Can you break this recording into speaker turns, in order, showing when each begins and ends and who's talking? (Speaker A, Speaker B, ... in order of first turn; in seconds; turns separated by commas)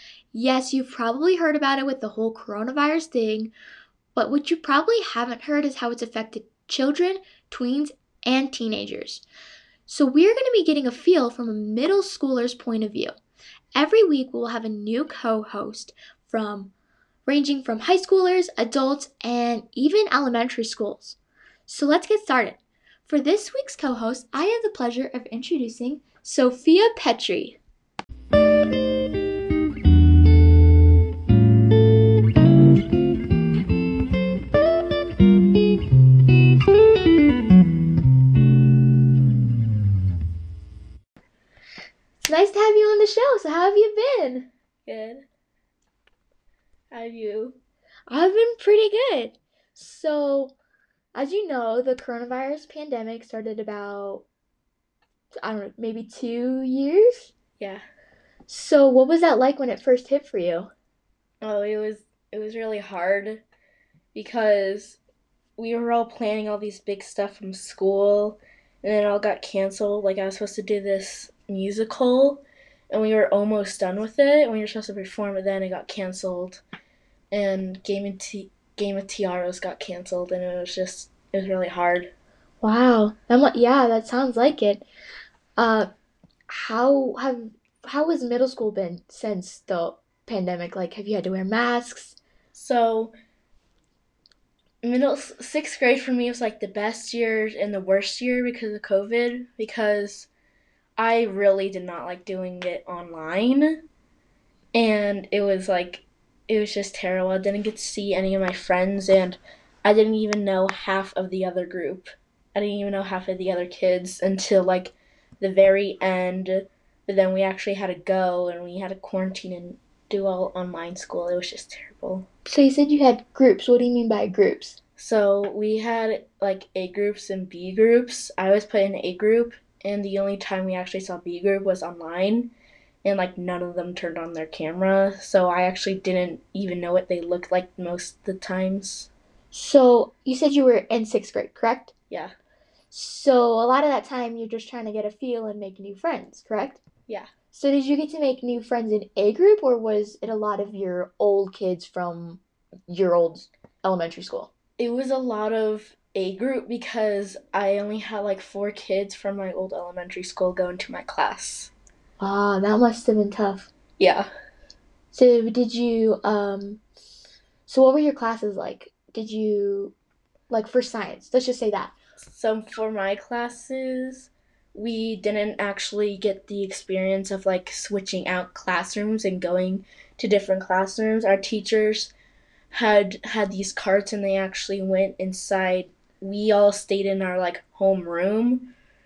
Speaker A: 0.3-3.5, Speaker A: 4.2-9.2, Speaker A: 9.9-13.1, Speaker A: 13.8-16.7, Speaker A: 17.3-27.6, Speaker A: 42.2-44.5, Speaker B: 44.9-45.2, Speaker B: 46.9-47.6, Speaker A: 48.1-50.5, Speaker A: 51.1-54.2, Speaker A: 55.4-57.3, Speaker B: 57.6-57.8, Speaker A: 58.5-60.7, Speaker B: 61.4-63.4, Speaker B: 64.1-65.0, Speaker B: 65.6-76.6, Speaker B: 77.3-82.1, Speaker A: 82.6-84.8, Speaker A: 85.6-85.9, Speaker A: 86.5-92.2, Speaker B: 92.5-93.1, Speaker B: 94.8-100.3, Speaker B: 101.0-103.8, Speaker B: 104.7-122.3, Speaker A: 122.5-124.8, Speaker B: 125.0-132.5, Speaker B: 133.0-139.1, Speaker A: 139.5-141.9, Speaker A: 142.9-146.8, Speaker A: 147.5-154.5, Speaker B: 154.8-161.7, Speaker A: 162.2-163.7, Speaker B: 164.0-164.3, Speaker A: 165.1-166.8, Speaker A: 167.7-169.9, Speaker A: 170.5-171.9, Speaker B: 172.2-182.1, Speaker B: 182.7-188.7